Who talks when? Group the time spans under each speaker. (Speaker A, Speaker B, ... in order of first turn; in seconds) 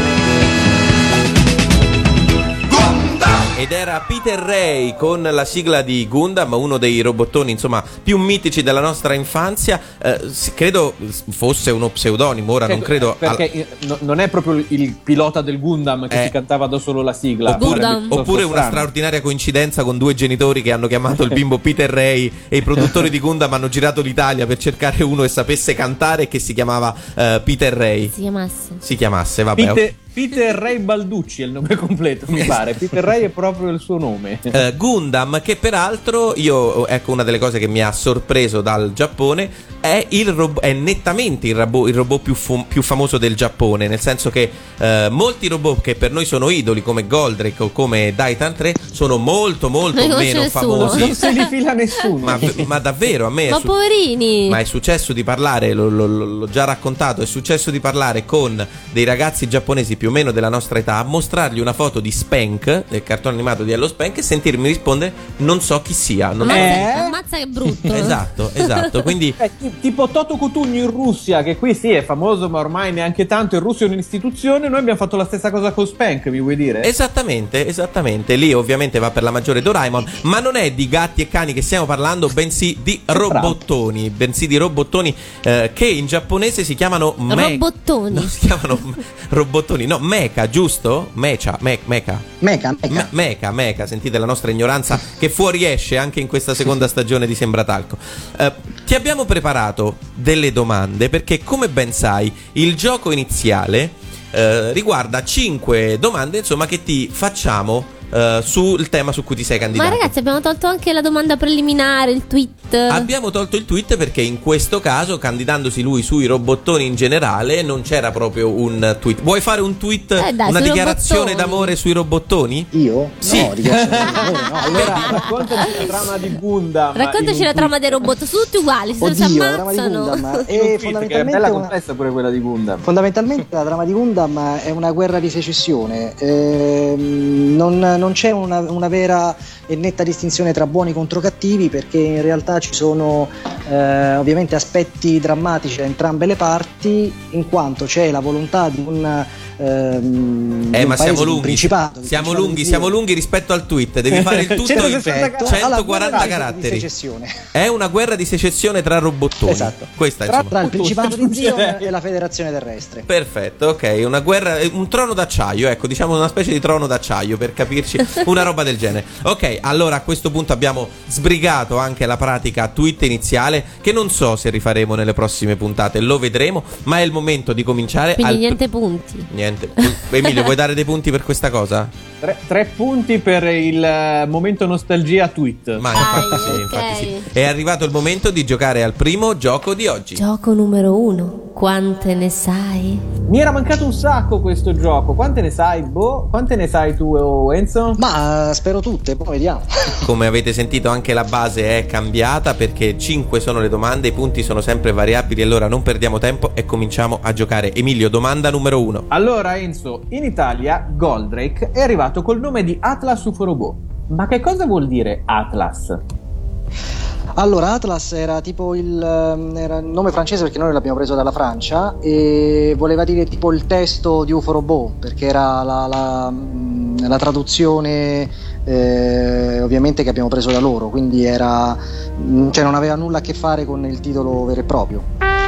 Speaker A: 3.5-13.4, 17.5-28.1, 28.8-29.9, 34.5-51.3, 52.2-53.7, 54.5-66.9, 67.8-69.4, 76.8-92.3, 92.9-110.1, 112.9-122.7, 123.2-123.6, 124.7-125.2, 150.7-156.9, 157.5-160.5, 163.1-178.6, 179.3-181.9, 185.8-190.2, 200.0-209.1
Speaker B: 12.7-18.9, 29.6-34.6, 50.7-52.7, 66.4-67.1, 69.4-76.9, 83.1-83.6, 123.6-124.1, 124.7-128.0, 130.5-132.8, 154.1-156.3, 160.3-161.9, 182.2-185.9, 193.3-198.0, 209.1-216.0
Speaker C: 17.5-18.2, 28.1-28.8, 49.9-51.3, 53.5-54.6, 66.4-68.2, 87.3-88.3, 109.7-113.1, 120.2-121.7, 126.9-130.4, 178.2-179.3, 185.9-187.3, 190.2-193.0
Speaker D: 92.4-93.1, 122.7-125.3, 129.0-131.7, 132.8-152.9, 154.6-157.4, 159.4-159.9, 160.5-163.1, 198.0-200.1, 217.4-235.1